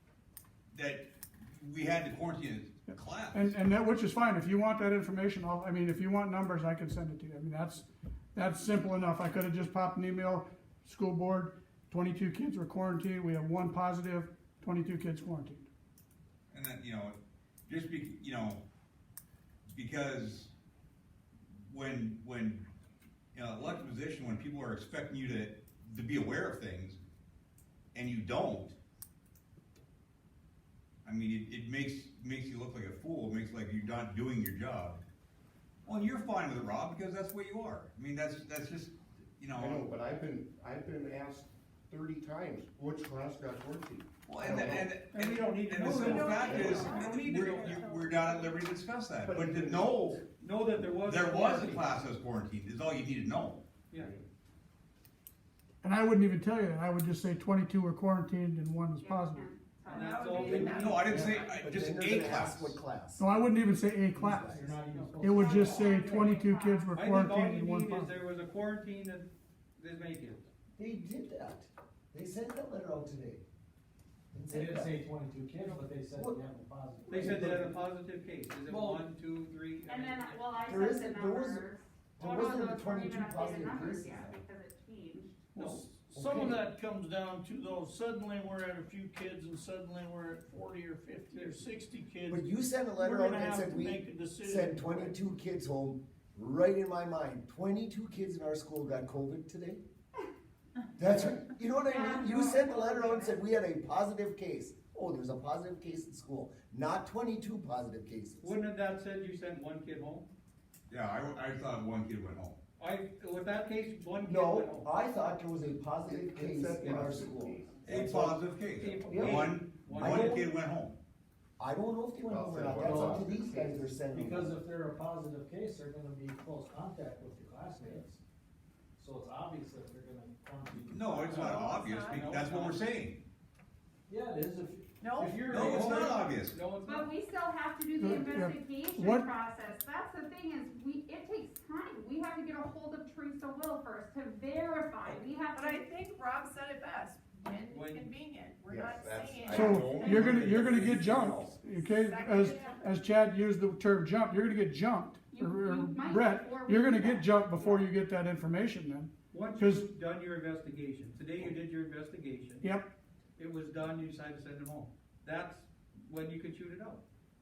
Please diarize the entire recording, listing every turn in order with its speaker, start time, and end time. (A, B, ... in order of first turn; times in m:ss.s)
0:00.7-0:03.6 A
0:02.9-0:15.7 B
0:16.5-0:17.2 A
0:17.7-0:18.6 A
0:19.7-0:20.5 A
0:21.7-0:22.7 A
0:23.3-0:27.0 A
0:27.9-0:28.8 A
0:31.0-0:35.0 A
0:35.8-0:39.8 A
0:39.6-0:45.0 C
0:44.3-0:50.0 A
0:44.7-0:47.8 D
0:45.9-0:48.7 E
0:49.2-0:50.3 C
0:50.4-0:52.0 D
0:51.0-0:53.6 A
0:54.0-0:54.3 C
0:55.8-0:59.5 B
0:59.0-1:01.1 F
0:59.9-1:01.6 D
0:59.9-1:01.5 E
1:00.6-1:03.3 G
1:00.8-1:02.8 A
1:03.2-1:08.1 B
1:04.2-1:06.4 H
1:04.2-1:04.8 G
1:04.9-1:06.1 D
1:05.4-1:06.9 F
1:06.9-1:10.5 D
1:10.8-1:13.4 G
1:14.3-1:15.0 G
1:14.5-1:17.6 H
1:16.1-1:16.4 G
1:17.1-1:17.6 G
1:17.1-1:20.7 D
1:18.7-1:19.1 H
1:19.9-1:25.5 F
1:20.6-1:24.4 G
1:25.6-1:35.2 I
1:25.6-1:25.8 D
1:26.1-1:26.6 G
1:32.3-1:39.8 G
1:41.0-1:48.5 G
1:41.8-1:43.4 F
1:48.4-1:50.3 D
1:50.9-1:52.6 A
1:52.8-1:54.9 D
1:54.2-1:58.4 G
1:56.0-1:57.8 C
1:57.8-2:01.0 A
1:58.8-2:00.5 D
1:59.1-2:00.5 G
2:01.6-2:04.6 G
2:02.3-2:04.0 C
2:02.8-2:03.5 H
2:04.1-2:08.2 H
2:09.0-2:11.8 H
2:10.9-2:13.2 A
2:11.3-2:12.4 E
2:12.1-2:12.8 D
2:14.1-2:15.9 H
2:15.0-2:16.4 E
2:15.4-2:16.1 I
2:15.5-2:16.6 A
2:16.4-2:17.1 D
2:16.8-2:25.9 F
2:18.0-2:19.3 B
2:25.6-2:31.0 E
2:27.7-2:28.1 D
2:28.7-2:31.4 C
2:29.5-2:39.9 B
2:30.3-2:31.0 A
2:31.7-2:32.8 E
2:35.3-2:37.9 F
2:39.3-2:42.7 D
2:42.6-2:42.9 B
2:43.4-2:47.0 D